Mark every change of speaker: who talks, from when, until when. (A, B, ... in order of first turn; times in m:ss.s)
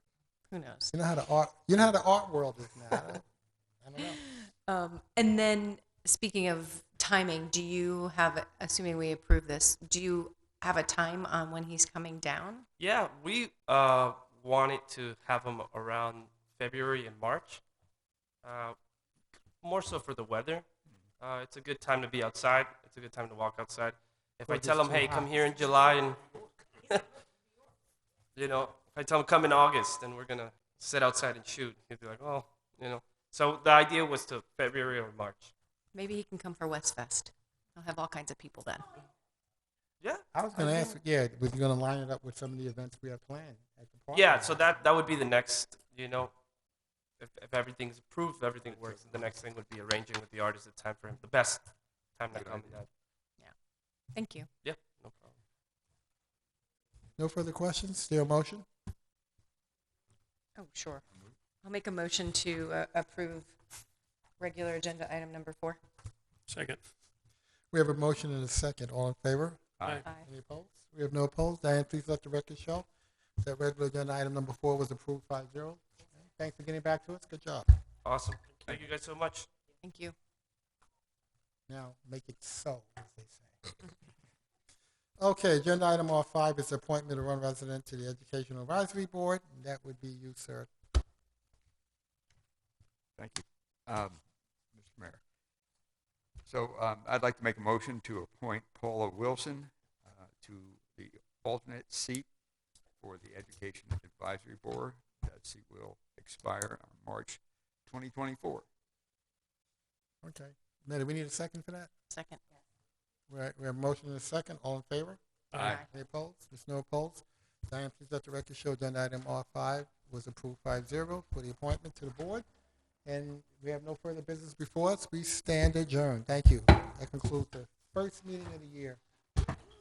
0:00.5-0:00.9 A
0:00.9-0:03.2 B
0:03.8-0:04.3 B
0:04.7-0:12.7 A
0:12.8-0:17.6 C
0:18.4-0:18.8 C
0:19.6-0:20.6 C
0:21.2-0:26.2 C
0:24.5-0:25.3 B
0:28.3-0:35.5 C
0:35.9-0:39.1 A
0:40.3-0:44.8 B
0:40.5-0:41.0 A
0:44.1-0:46.3 C
0:47.2-0:52.9 C
0:48.8-0:49.1 D
0:52.3-0:52.8 D
0:54.1-0:54.5 A
0:54.6-0:55.4 C
0:57.2-0:58.6 B
1:00.6-1:01.0 A
1:01.6-1:03.6 A
1:04.4-1:05.8 A
1:07.7-1:12.9 B
1:09.8-1:10.0 D
1:13.4-1:17.6 B
1:18.0-1:19.5 C
1:19.8-1:20.1 A
1:21.7-1:23.8 B
1:25.2-1:30.7 B
1:33.2-1:34.2 D
1:34.7-1:35.2 D
1:36.4-1:42.3 D
1:43.0-1:48.6 D
1:50.2-1:51.9 B
1:52.1-1:52.4 A
1:53.3-2:02.4 B
1:55.5-1:55.8 A
1:55.6-1:55.8 D
2:03.0-2:09.0 B